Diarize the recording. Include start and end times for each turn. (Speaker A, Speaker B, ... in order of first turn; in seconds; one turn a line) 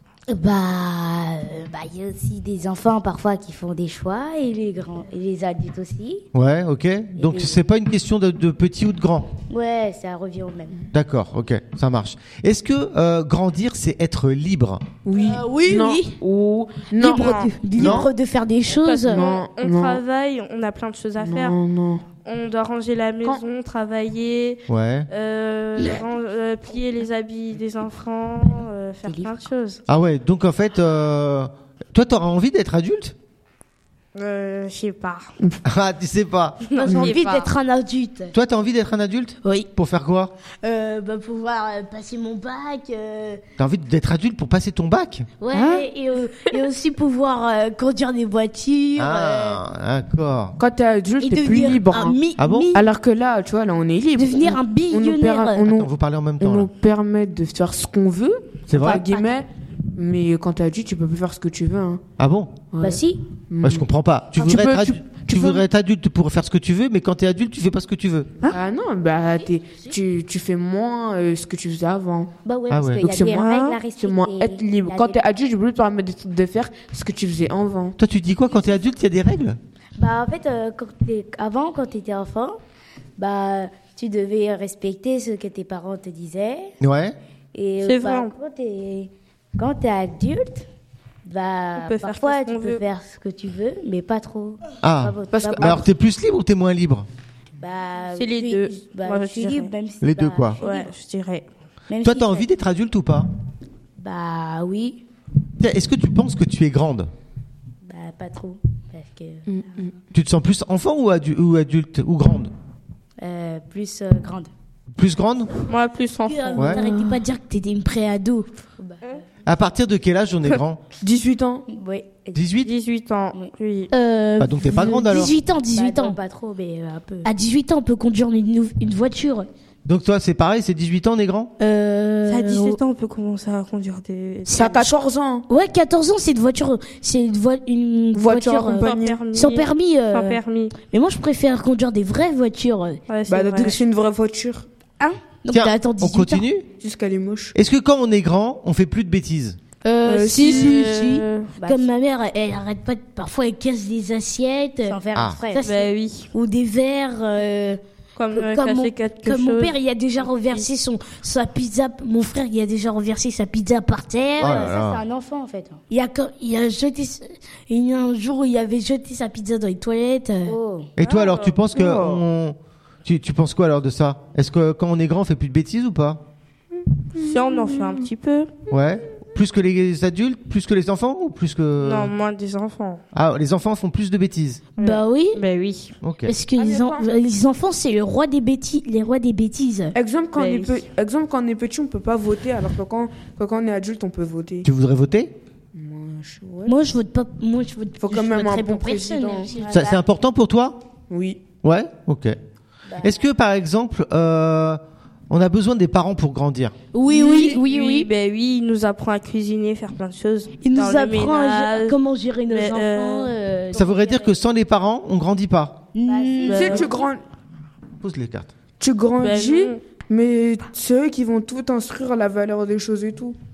Speaker A: 0.3-6.3
Speaker B: 6.3-9.3
Speaker A: 7.2-7.6
Speaker A: 9.5-10.8
Speaker B: 10.9-14.9
Speaker C: 15.0-18.0
Speaker D: 15.1-16.2
Speaker D: 16.9-19.2
Speaker E: 17.0-17.5
Speaker B: 17.8-18.1
Speaker E: 18.8-21.6
Speaker C: 19.1-20.0
Speaker C: 21.2-22.0
Speaker E: 22.2-29.8
Speaker B: 24.7-25.1
Speaker A: 29.1-29.4
Speaker B: 29.9-33.1
Speaker E: 34.1-35.3
Speaker B: 35.6-36.7
Speaker E: 36.6-37.5
Speaker D: 36.8-38.3
Speaker C: 36.9-37.1
Speaker B: 38.3-40.3
Speaker D: 39.4-39.7
Speaker D: 40.6-43.4
Speaker B: 43.6-45.3
Speaker D: 45.4-49.6
Speaker C: 45.5-45.9
Speaker B: 49.0-50.6
Speaker C: 50.6-52.2
Speaker D: 51.2-52.9
Speaker B: 52.4-52.7
Speaker C: 52.7-55.9
Speaker D: 54.2-55.6
Speaker B: 55.6-56.7
Speaker C: 56.4-62.0
Speaker B: 58.7-59.1
Speaker D: 58.9-59.2
Speaker B: 62.2-62.6
Speaker C: 62.7-65.6
Speaker D: 62.8-63.2
Speaker B: 63.6-68.3
Speaker C: 68.4-72.3
Speaker A: 72.5-75.2
Speaker B: 72.7-73.1
Speaker C: 73.0-78.0
Speaker E: 73.3-73.8
Speaker B: 78.0-79.6
Speaker A: 80.0-82.6
Speaker A: 83.2-86.7
Speaker B: 86.8-87.2
Speaker A: 87.5-90.7
Speaker E: 87.8-88.3
Speaker A: 91.2-95.8
Speaker E: 91.8-92.8
Speaker B: 94.8-97.1
Speaker C: 95.3-95.8
Speaker A: 97.6-100.7
Speaker E: 98.2-99.7
Speaker B: 100.0-100.6
Speaker E: 100.6-101.5
Speaker C: 100.6-100.9
Speaker A: 101.9-102.5
Speaker B: 102.0-103.3
Speaker A: 104.0-105.0
Speaker B: 105.6-107.1
Speaker A: 107.8-109.7
Speaker C: 109.5-109.9
Speaker B: 110.1-112.5
Speaker A: 113.2-114.5
Speaker B: 115.0-115.5
Speaker E: 115.7-116.8
Speaker D: 116.3-118.5
Speaker B: 116.6-116.8
Speaker C: 116.8-117.2
Speaker A: 118.8-119.2
Speaker B: 119.5-120.8
Speaker C: 121.0-121.7
Speaker A: 121.7-122.4
Speaker B: 122.3-122.7
Speaker E: 122.6-123.9
Speaker D: 123.9-126.2
Speaker B: 124.4-125.4
Speaker A: 125.8-127.3
Speaker D: 127.2-129.5
Speaker B: 129.9-131.5
Speaker D: 131.6-132.8
Speaker E: 132.3-134.8
Speaker D: 134.5-134.8
Speaker C: 134.5-135.5
Speaker D: 135.5-143.0
Speaker C: 138.1-139.2
Speaker E: 138.8-140.7
Speaker E: 143.1-143.8
Speaker C: 143.3-144.7
Speaker D: 145.0-146.4
Speaker B: 145.5-146.7
Speaker C: 146.8-147.6
Speaker B: 147.6-149.6
Speaker D: 149.8-155.0
Speaker E: 150.1-151.5
Speaker C: 150.4-150.8
Speaker A: 151.6-151.9
Speaker A: 154.9-155.7
Speaker B: 155.2-155.4
Speaker D: 155.5-157.8
Speaker E: 155.6-156.3
Speaker E: 158.2-159.8
Speaker D: 158.3-164.7
Speaker A: 164.4-165.8
Speaker B: 164.4-165.0
Speaker D: 165.9-170.6
Speaker A: 170.5-170.9
Speaker B: 171.0-176.2
Speaker E: 171.0-171.6
Speaker C: 171.7-172.2
Speaker C: 177.2-177.9
Speaker E: 177.2-178.5
Speaker B: 178.7-182.1
Speaker E: 181.8-183.0
Speaker B: 183.1-184.6
Speaker E: 184.8-185.9
Speaker D: 184.8-185.4
Speaker B: 186.0-186.3
Speaker D: 186.2-190.0
Speaker C: 186.6-187.1
Speaker C: 189.9-194.7
Speaker E: 190.4-190.8
Speaker B: 194.6-195.3
Speaker C: 195.7-196.8
Speaker D: 196.7-199.9
Speaker C: 198.0-199.5
Speaker A: 199.5-200.0
Speaker B: 199.7-200.8
Speaker C: 201.1-201.4
Speaker B: 201.6-202.4
Speaker A: 202.9-203.3
Speaker B: 203.0-206.8
Speaker D: 206.9-208.1
Speaker C: 207.1-207.6
Speaker E: 207.2-213.3
Speaker D: 210.6-214.2
Speaker B: 213.7-215.8
Speaker A: 213.8-214.2
Speaker D: 215.9-216.8
Speaker A: 216.1-217.1
Speaker E: 216.5-216.9
Speaker C: 216.5-217.2
Speaker B: 218.0-218.5
Speaker C: 218.8-223.4
Speaker E: 219.2-219.8